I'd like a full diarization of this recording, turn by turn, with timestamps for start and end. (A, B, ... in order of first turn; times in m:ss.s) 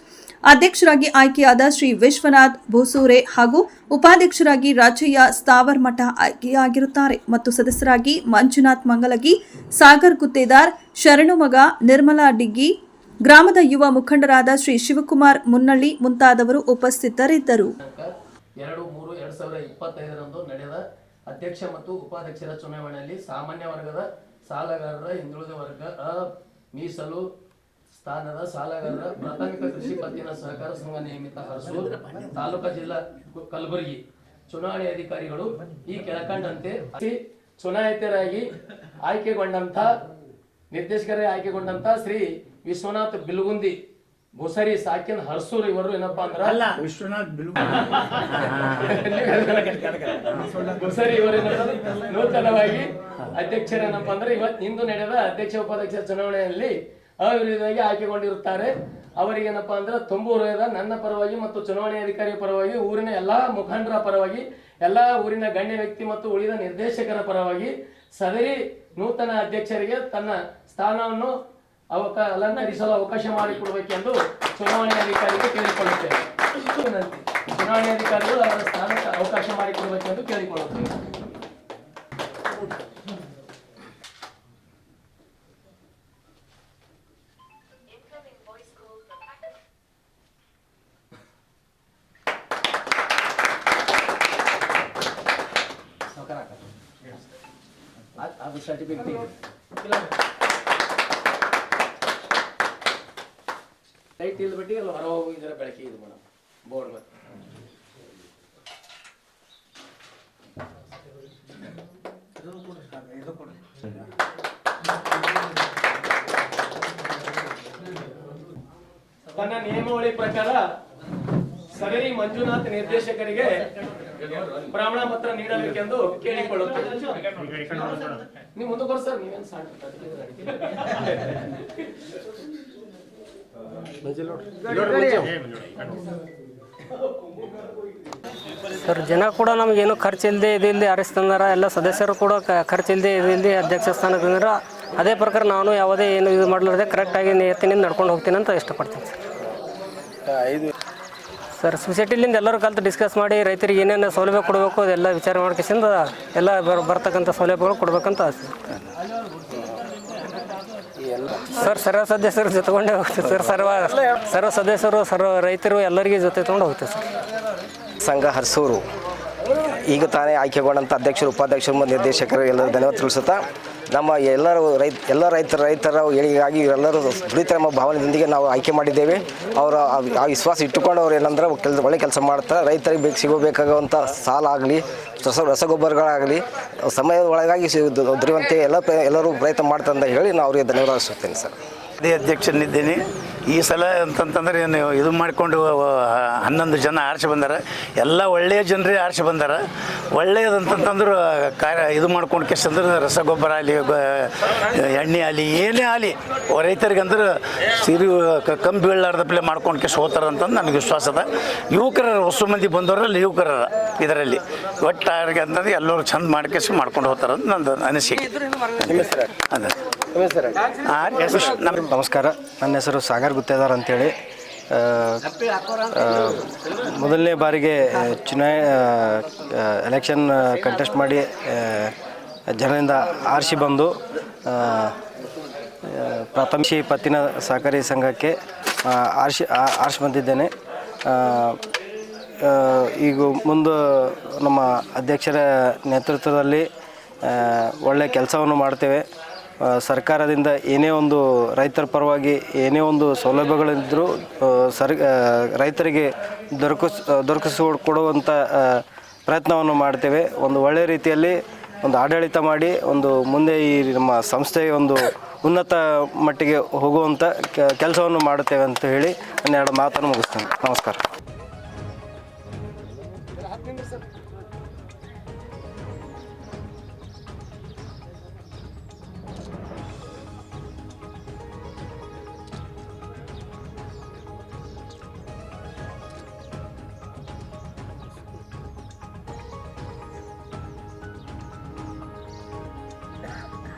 0:00.5-0:12.7 A
0:13.2-0:17.7 A
0:17.8-0:27.2 B
0:28.0-0:38.5 B
0:39.0-0:39.9 B
0:40.7-0:43.7 B
0:44.4-0:46.6 B
0:46.5-0:47.6 C
0:46.9-0:47.4 D
0:47.6-1:11.4 B
1:11.9-1:20.9 B
1:36.1-1:36.6 B
1:38.2-1:39.3 B
1:44.2-1:47.0 B
1:59.3-2:00.6 B
2:01.7-2:03.6 B
2:04.5-2:07.3 B
2:08.6-2:11.4 B
2:14.2-2:15.3 B
2:18.8-2:29.1 E
2:31.6-2:38.5 E
2:41.4-2:47.0 E
2:48.0-2:48.9 D
2:49.6-3:11.5 D
3:12.0-3:19.6 C
3:20.1-3:39.7 C
3:40.2-3:40.6 B
3:40.8-3:41.8 C
3:41.9-3:44.1 F
3:44.7-3:51.9 F
3:52.5-3:55.0 F
3:55.8-4:00.5 F
4:01.0-4:01.6 F
4:02.4-4:06.7 F
4:07.2-4:09.0 F
4:09.6-4:31.0 F